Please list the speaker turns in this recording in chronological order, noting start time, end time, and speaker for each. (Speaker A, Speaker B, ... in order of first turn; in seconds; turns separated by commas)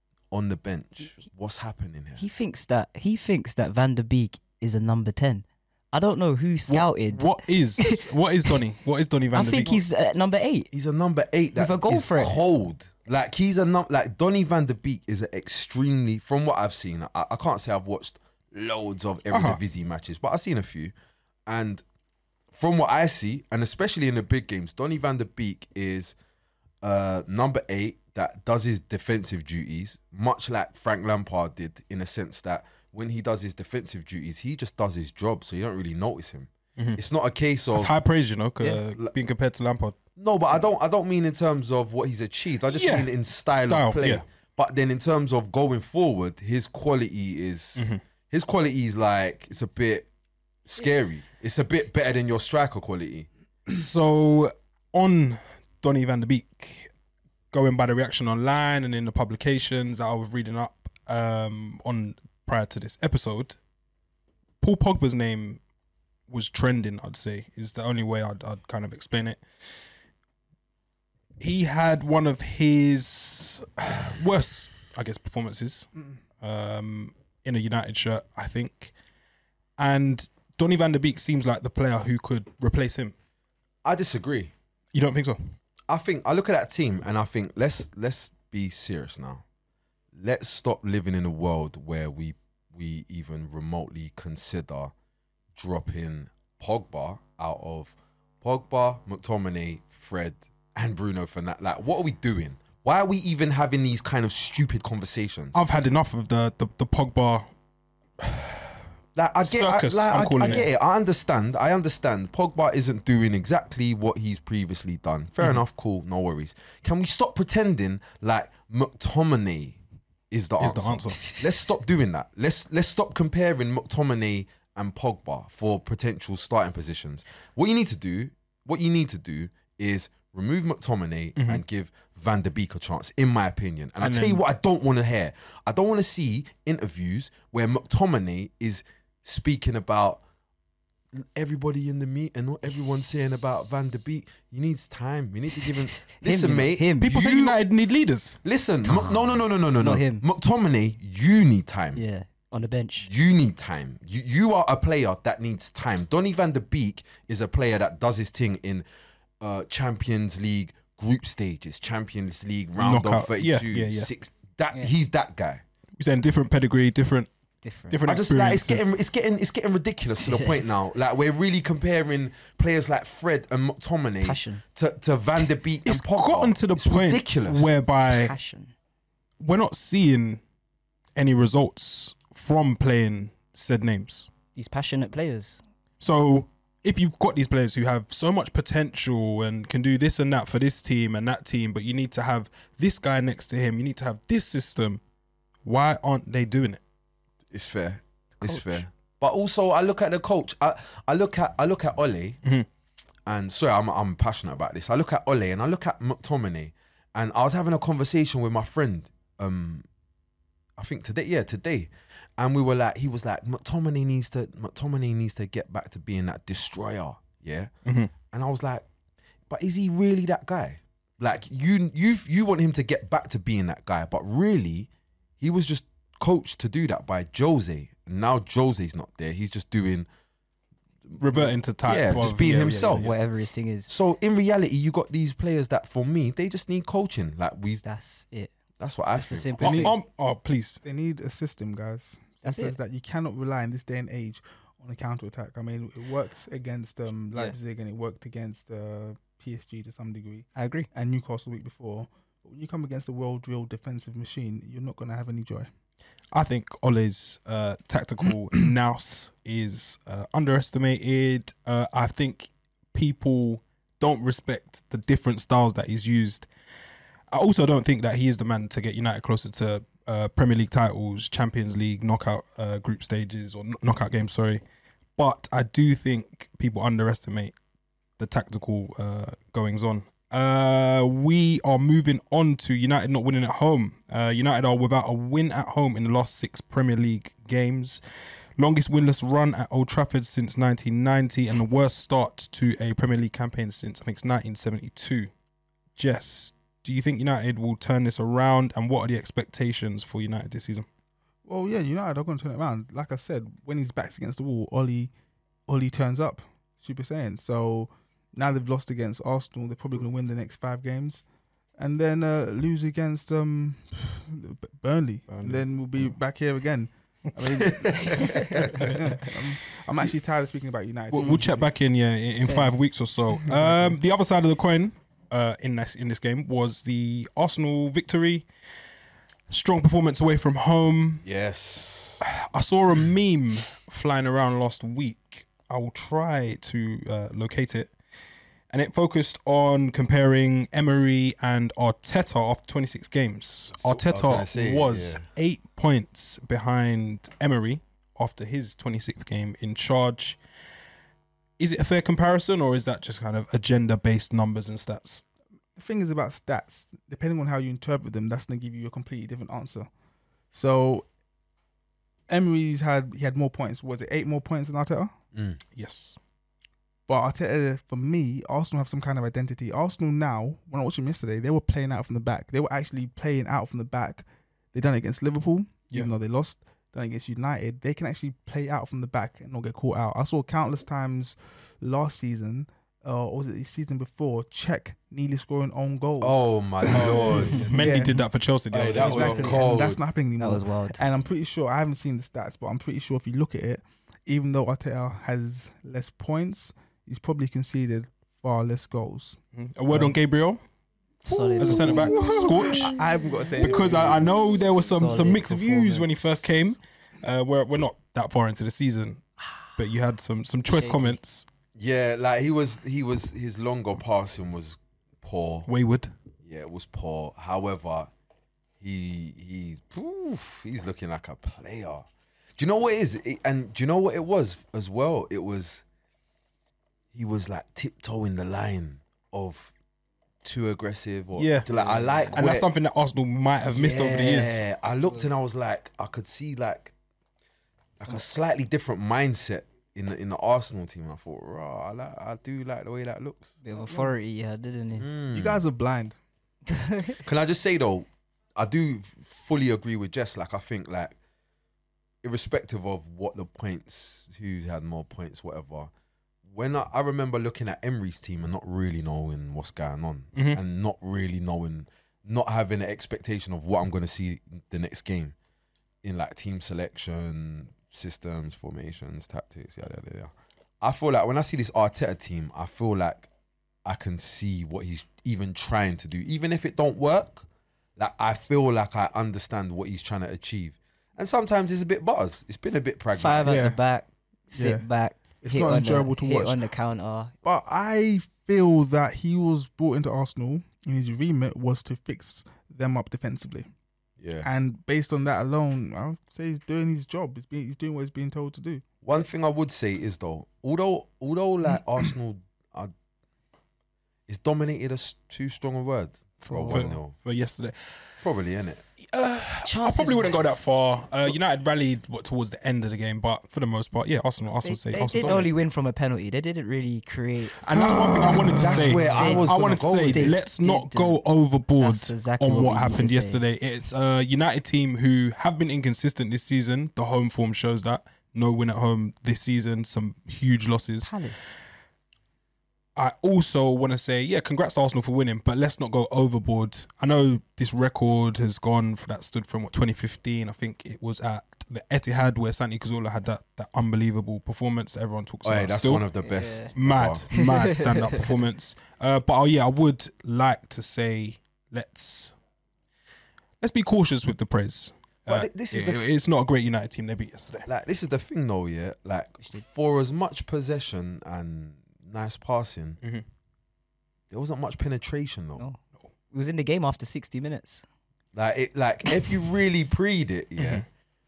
Speaker A: 0.3-2.3, Speaker B: 2.2-8.0, Speaker C: 6.7-9.8, Speaker B: 9.3-10.7, Speaker A: 10.7-20.9, Speaker B: 11.6-12.4, Speaker C: 19.3-19.6, Speaker A: 21.5-21.8, Speaker A: 22.5-26.1, Speaker A: 26.8-37.9, Speaker C: 37.7-40.0, Speaker A: 40.2-50.1, Speaker C: 42.7-44.2, Speaker A: 50.6-53.3, Speaker C: 53.7-56.9, Speaker C: 57.5-63.6, Speaker C: 64.6-65.6, Speaker C: 66.3-69.4, Speaker C: 71.4-78.9, Speaker C: 79.8-83.1, Speaker A: 83.8-84.5, Speaker C: 84.9-85.5, Speaker A: 85.9-89.4, Speaker A: 90.2-94.9, Speaker A: 95.5-105.6, Speaker C: 105.5-107.5, Speaker C: 108.2-108.8, Speaker A: 109.2-119.8, Speaker C: 109.5-110.7, Speaker A: 120.3-140.2, Speaker C: 120.6-121.3, Speaker C: 131.4-131.6, Speaker C: 134.0-134.4, Speaker A: 141.1-147.6, Speaker B: 145.8-147.1, Speaker C: 147.0-148.4, Speaker A: 148.4-152.0, Speaker B: 149.8-150.2, Speaker B: 151.9-153.1, Speaker A: 153.0-158.8, Speaker A: 159.4-165.6, Speaker C: 162.8-164.1, Speaker C: 166.0-167.3, Speaker B: 167.6-168.0, Speaker C: 167.9-168.9, Speaker A: 168.1-177.7, Speaker B: 170.2-170.6, Speaker B: 174.2-174.6, Speaker C: 175.8-178.3, Speaker B: 178.1-178.7, Speaker C: 179.4-180.4, Speaker C: 181.2-184.3, Speaker B: 184.6-185.6, Speaker C: 186.0-195.0, Speaker C: 195.7-196.8, Speaker A: 197.5-202.4, Speaker B: 198.4-198.8, Speaker A: 203.3-209.9, Speaker A: 210.8-217.7, Speaker C: 217.8-218.1, Speaker A: 218.3-218.8, Speaker A: 219.5-224.9, Speaker A: 225.4-230.1, Speaker A: 231.1-233.2, Speaker C: 231.2-233.1, Speaker B: 232.9-233.9, Speaker A: 233.9-237.8, Speaker B: 237.8-238.5, Speaker A: 238.8-239.9, Speaker B: 239.2-239.9, Speaker C: 239.6-240.8, Speaker D: 240.8-255.7, Speaker B: 242.4-242.8, Speaker B: 250.6-250.9, Speaker C: 256.3-266.5, Speaker C: 267.3-274.6, Speaker C: 275.2-277.5, Speaker C: 278.2-288.0, Speaker C: 288.6-295.3, Speaker C: 296.0-300.9, Speaker D: 301.4-305.1, Speaker D: 305.7-311.2, Speaker D: 311.8-321.7, Speaker C: 315.3-315.7, Speaker A: 317.6-318.6, Speaker B: 318.2-318.8, Speaker C: 321.1-328.5, Speaker B: 322.4-322.7, Speaker D: 323.5-323.9, Speaker C: 329.5-331.3, Speaker A: 331.2-332.3, Speaker C: 332.2-337.9, Speaker C: 338.7-350.4, Speaker A: 343.8-345.2, Speaker C: 351.6-355.2, Speaker D: 355.8-359.9, Speaker D: 360.5-361.1, Speaker D: 362.3-365.1, Speaker A: 365.3-365.6, Speaker C: 365.8-366.2, Speaker D: 367.1-388.2, Speaker A: 386.2-388.0, Speaker C: 386.9-389.5, Speaker A: 388.7-390.0, Speaker D: 389.0-399.4, Speaker B: 389.1-389.6, Speaker B: 390.4-391.0, Speaker C: 399.6-400.6, Speaker D: 399.9-400.2, Speaker B: 401.2-403.0, Speaker D: 401.3-404.6, Speaker C: 401.6-403.0, Speaker B: 403.6-406.6, Speaker C: 403.6-409.2, Speaker C: 409.8-411.5, Speaker B: 410.7-411.2, Speaker A: 411.8-415.7, Speaker C: 415.7-416.1, Speaker A: 416.4-418.1, Speaker A: 418.8-422.1, Speaker A: 422.6-425.8, Speaker A: 427.1-429.7, Speaker A: 430.4-432.7, Speaker C: 431.4-431.7, Speaker B: 431.7-432.4, Speaker C: 432.4-434.6, Speaker A: 433.6-436.9, Speaker A: 438.0-443.6, Speaker B: 443.6-445.1, Speaker D: 443.8-444.1, Speaker A: 445.0-445.6, Speaker D: 445.3-446.2, Speaker B: 446.7-447.2, Speaker A: 447.2-451.2, Speaker A: 452.2-455.9, Speaker A: 456.5-465.4, Speaker C: 460.4-460.6, Speaker A: 466.0-473.3, Speaker A: 473.9-483.6, Speaker B: 483.1-487.4, Speaker D: 483.5-483.8, Speaker D: 484.5-484.9, Speaker D: 485.4-486.6, Speaker D: 487.4-493.7, Speaker A: 494.2-494.5, Speaker D: 494.4-498.8, Speaker A: 499.0-502.9, Speaker A: 504.3-507.1, Speaker B: 506.4-506.9, Speaker C: 506.7-508.0, Speaker A: 508.2-508.8, Speaker C: 509.0-515.5, Speaker B: 509.6-510.6, Speaker B: 514.6-517.6, Speaker A: 515.1-515.5, Speaker C: 517.6-531.1, Speaker A: 517.7-520.4, Speaker B: 518.6-521.2, Speaker B: 521.8-523.4, Speaker B: 531.0-531.5, Speaker C: 533.0-546.0, Speaker A: 545.4-547.2, Speaker B: 546.2-546.7, Speaker C: 546.8-552.3, Speaker B: 547.4-548.3, Speaker C: 553.6-557.7, Speaker A: 555.3-556.0, Speaker A: 557.7-563.0, Speaker A: 564.3-565.6, Speaker B: 566.3-567.9, Speaker A: 568.3-570.9, Speaker C: 570.6-570.9